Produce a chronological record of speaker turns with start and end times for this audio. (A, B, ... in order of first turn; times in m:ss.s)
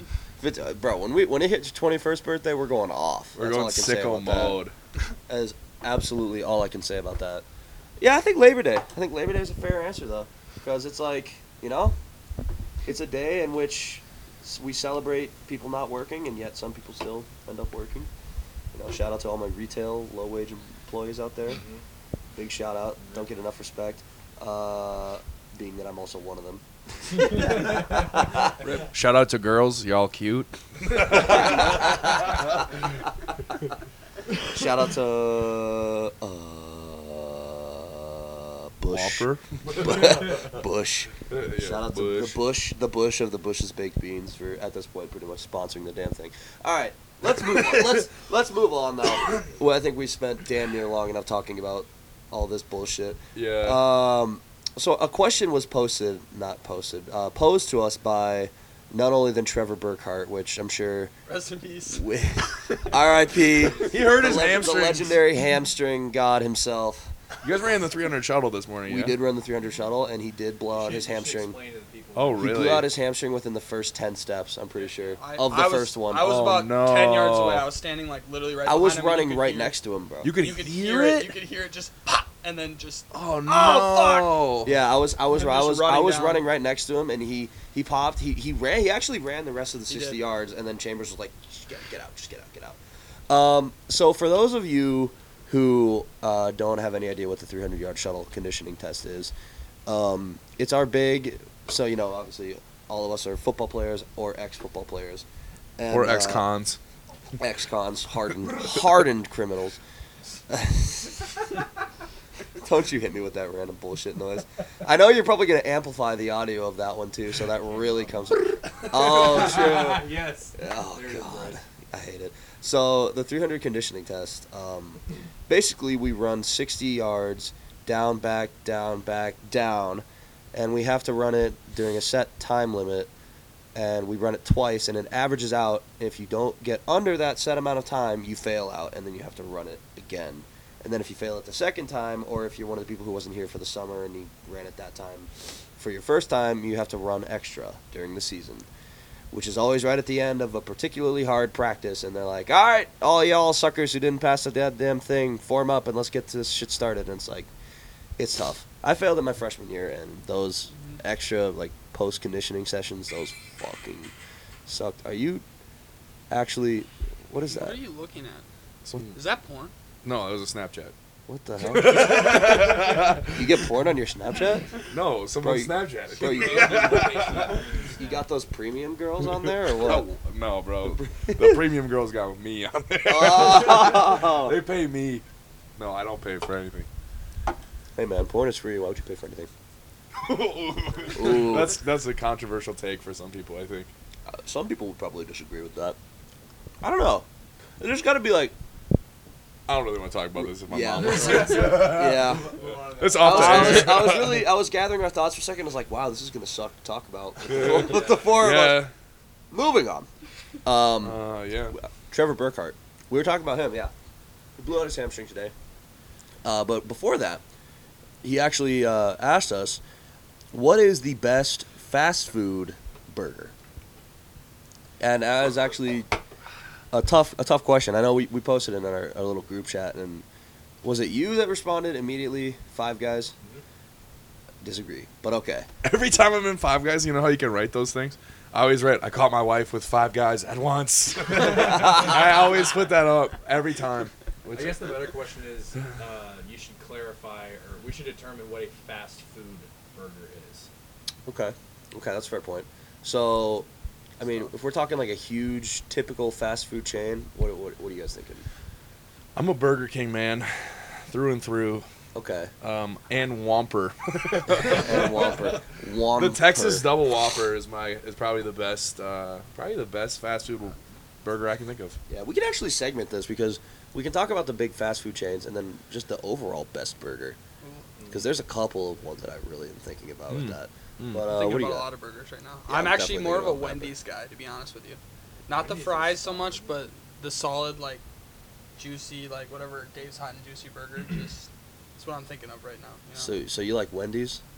0:00.4-0:04.6 A
0:03.4-0:04.7 B
0:05.3-0:07.4 A
0:08.0-0:12.0 A
0:12.8-0:18.1 A
0:18.7-0:21.6 A
0:21.5-0:21.8 C
0:22.3-0:28.5 A
0:23.0-0:23.3 C
0:28.9-0:31.8 B
0:31.1-0:32.5 A
0:34.4-1:01.1 A
0:38.9-0:40.4 B
0:41.3-0:42.4 B
0:53.3-0:53.8 B
1:01.3-1:02.0 D
1:01.9-1:07.1 A
1:03.4-1:04.2 C
1:03.8-1:05.2 B
1:07.4-1:09.2 B
1:08.9-1:11.6 A
1:10.7-1:12.5 C
1:12.2-1:12.9 B
1:12.4-1:16.3 A
1:14.7-1:15.2 C
1:15.2-1:19.8 D
1:16.2-1:17.7 B
1:18.6-1:20.3 A
1:20.2-1:21.4 B
1:20.4-1:24.4 D
1:23.1-1:24.7 B
1:24.6-1:32.8 A
1:25.3-1:26.4 D
1:29.9-1:30.2 D
1:33.3-1:39.3 A
1:39.9-1:45.2 A
1:45.8-1:46.4 A
1:45.9-1:46.8 B
1:47.4-1:49.8 A
1:50.5-1:51.2 A
1:52.6-2:13.1 A
1:58.8-2:01.6 C
2:13.7-2:28.7 A
2:29.3-2:37.5 A
2:38.2-2:44.1 A
2:40.7-2:41.0 D
2:44.7-2:45.4 A
2:46.3-2:47.8 A
2:47.5-2:48.4 D
2:48.8-2:49.1 B
2:49.1-2:49.7 D
2:50.0-2:50.9 B
2:51.3-2:54.7 A
2:51.6-2:53.7 B
2:54.9-2:57.6 B
2:55.4-2:57.3 A
2:56.2-2:58.3 C
2:58.0-3:00.1 A
2:59.3-3:05.2 B
3:01.0-3:01.6 A
3:03.0-3:04.6 A
3:05.8-3:06.9 B
3:08.0-3:09.5 A
3:10.2-3:13.9 B
3:11.1-3:11.8 A
3:14.3-3:16.0 A
3:16.8-3:17.2 A
3:17.8-3:18.5 A
3:19.7-3:24.5 B
3:20.4-3:22.5 A
3:21.2-3:23.8 C
3:22.7-3:23.9 D
3:23.2-3:28.8 A
3:27.5-3:28.9 B
3:27.5-3:28.3 C
3:29.5-3:30.1 A
3:30.6-3:31.2 A
3:31.0-3:31.7 B
3:31.7-3:33.9 A
3:34.6-3:35.5 A
3:36.4-3:37.4 A
3:38.2-3:39.8 A
3:40.5-3:43.5 A
3:45.0-3:46.1 A
3:46.9-3:50.2 A
3:50.8-3:53.3 A
3:54.6-3:55.7 A
3:55.8-4:05.0 B
4:01.5-4:02.1 A
4:04.5-4:10.7 C
4:11.2-4:13.7 A
4:14.2-4:18.4 A
4:19.4-4:21.8 B
4:22.1-4:22.5 A
4:22.6-4:25.5 B
4:24.6-4:26.9 A
4:26.1-4:32.0 B
4:32.1-4:37.4 A
4:38.1-4:41.8 A
4:40.3-4:41.2 B
4:41.2-4:48.0 D
4:42.7-4:43.9 A
4:45.5-4:46.8 C
4:48.8-4:53.3 D
4:53.1-4:54.4 A